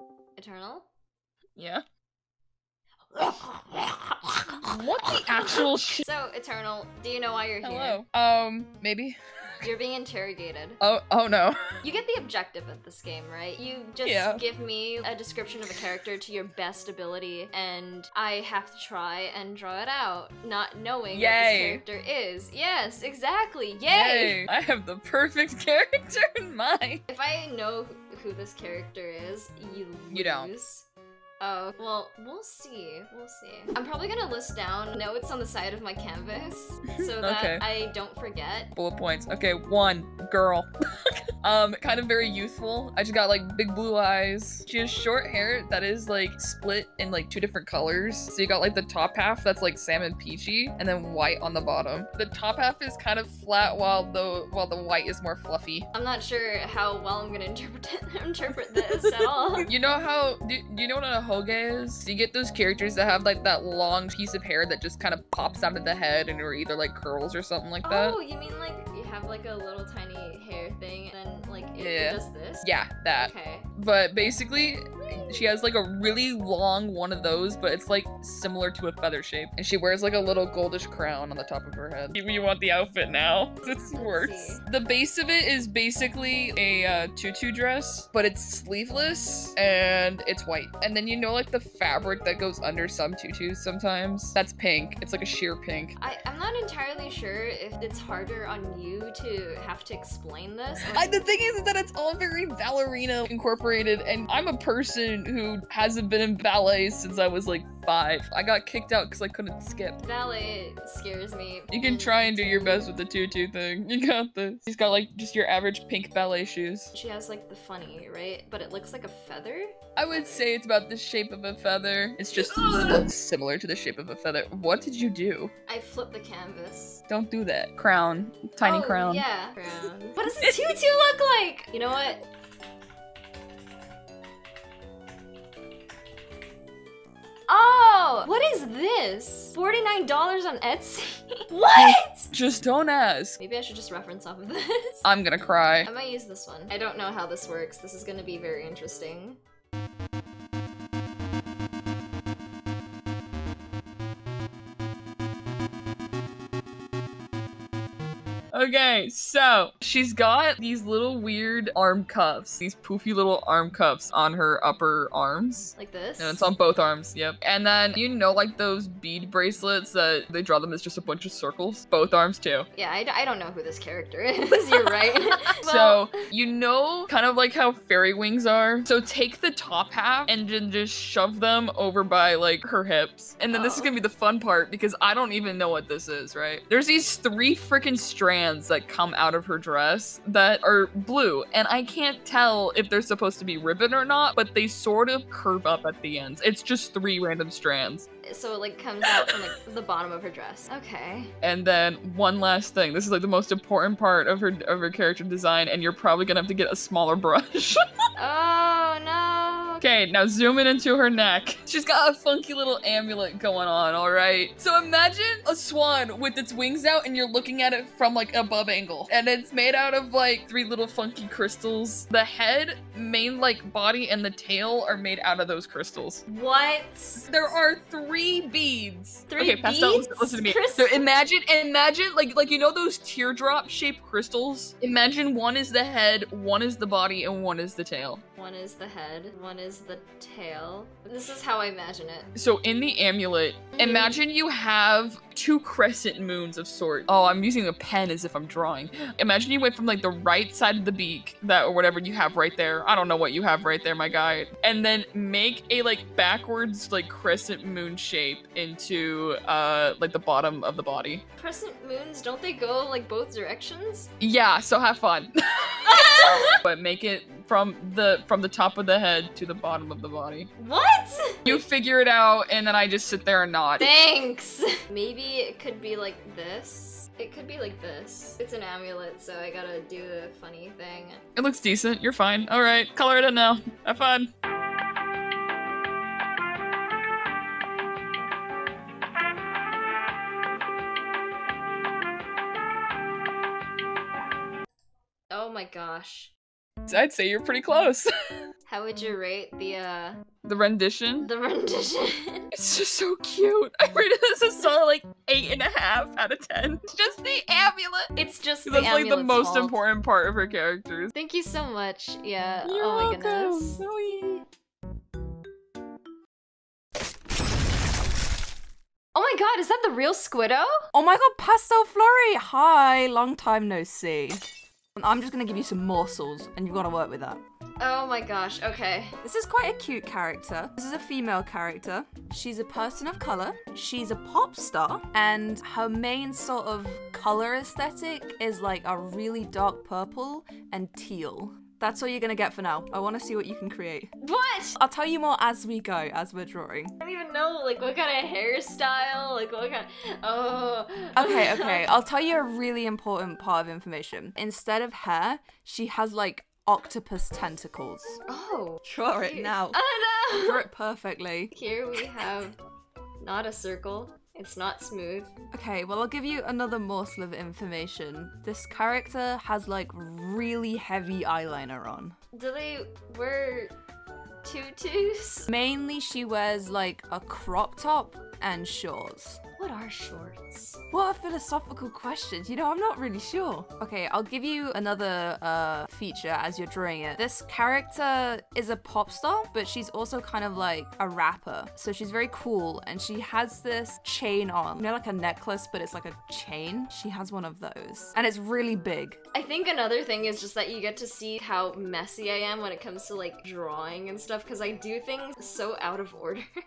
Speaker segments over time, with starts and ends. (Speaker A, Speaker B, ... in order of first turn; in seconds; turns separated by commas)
Speaker A: 0.3-0.9, Speaker B: 1.6-1.8, Speaker A: 3.1-8.0, Speaker B: 4.5-6.0, Speaker B: 7.6-9.6, Speaker A: 9.6-10.8, Speaker B: 10.8-11.7, Speaker A: 11.8-24.4, Speaker B: 14.0-14.4, Speaker B: 21.1-21.8, Speaker B: 23.9-27.0, Speaker A: 27.1-30.9, Speaker B: 30.1-30.5, Speaker A: 31.4-38.7, Speaker B: 36.9-37.6, Speaker B: 38.8-40.7, Speaker B: 41.4-55.9, Speaker A: 55.9-59.7, Speaker B: 59.1-68.2, Speaker A: 67.8-73.7, Speaker B: 71.8-96.0, Speaker A: 83.6-84.6, Speaker A: 96.0-101.2, Speaker B: 100.8-110.0, Speaker A: 110.0-113.0, Speaker B: 111.7-116.9, Speaker A: 116.9-120.5, Speaker B: 120.0-125.5, Speaker A: 125.7-127.0, Speaker B: 127.1-129.2, Speaker A: 128.6-132.2, Speaker B: 130.3-130.6, Speaker A: 137.5-142.3, Speaker B: 141.7-143.4, Speaker A: 143.4-145.0, Speaker B: 145.0-145.9, Speaker A: 145.8-149.4, Speaker B: 158.5-172.7, Speaker A: 165.8-166.5, Speaker A: 172.7-176.3, Speaker B: 174.6-198.1, Speaker A: 183.5-183.9, Speaker A: 198.2-201.3, Speaker B: 199.0-199.4, Speaker B: 201.4-207.8, Speaker A: 208.2-209.8, Speaker B: 209.8-226.2, Speaker A: 226.3-227.2, Speaker B: 227.2-238.2, Speaker A: 229.3-231.2, Speaker A: 238.3-242.3, Speaker B: 242.3-261.2, Speaker A: 243.8-244.2, Speaker A: 261.4-264.1, Speaker B: 264.2-270.5, Speaker A: 265.9-266.5, Speaker A: 270.6-271.6, Speaker B: 271.4-273.9, Speaker A: 273.8-281.2, Speaker B: 281.3-284.3, Speaker A: 295.3-296.3, Speaker B: 296.9-298.1, Speaker A: 298.7-300.2, Speaker B: 300.4-301.3, Speaker A: 301.2-302.5, Speaker B: 302.5-308.1, Speaker A: 308.1-309.8, Speaker B: 308.6-311.1, Speaker A: 311.1-313.8, Speaker B: 312.6-314.4, Speaker A: 319.1-320.8, Speaker C: 320.9-324.4, Speaker C: 324.9-327.4, Speaker A: 327.8-329.2, Speaker C: 329.2-344.1, Speaker A: 344.2-344.8, Speaker C: 344.8-346.9, Speaker A: 347.0-351.8, Speaker C: 351.1-358.2, Speaker A: 358.3-360.6, Speaker C: 358.8-359.8, Speaker C: 360.3-362.1, Speaker A: 361.5-362.5, Speaker A: 363.2-365.3, Speaker C: 365.5-372.1, Speaker A: 372.3-373.7, Speaker A: 374.4-375.5, Speaker C: 375.5-379.4, Speaker A: 379.6-380.8, Speaker C: 380.9-399.2, Speaker A: 399.3-406.5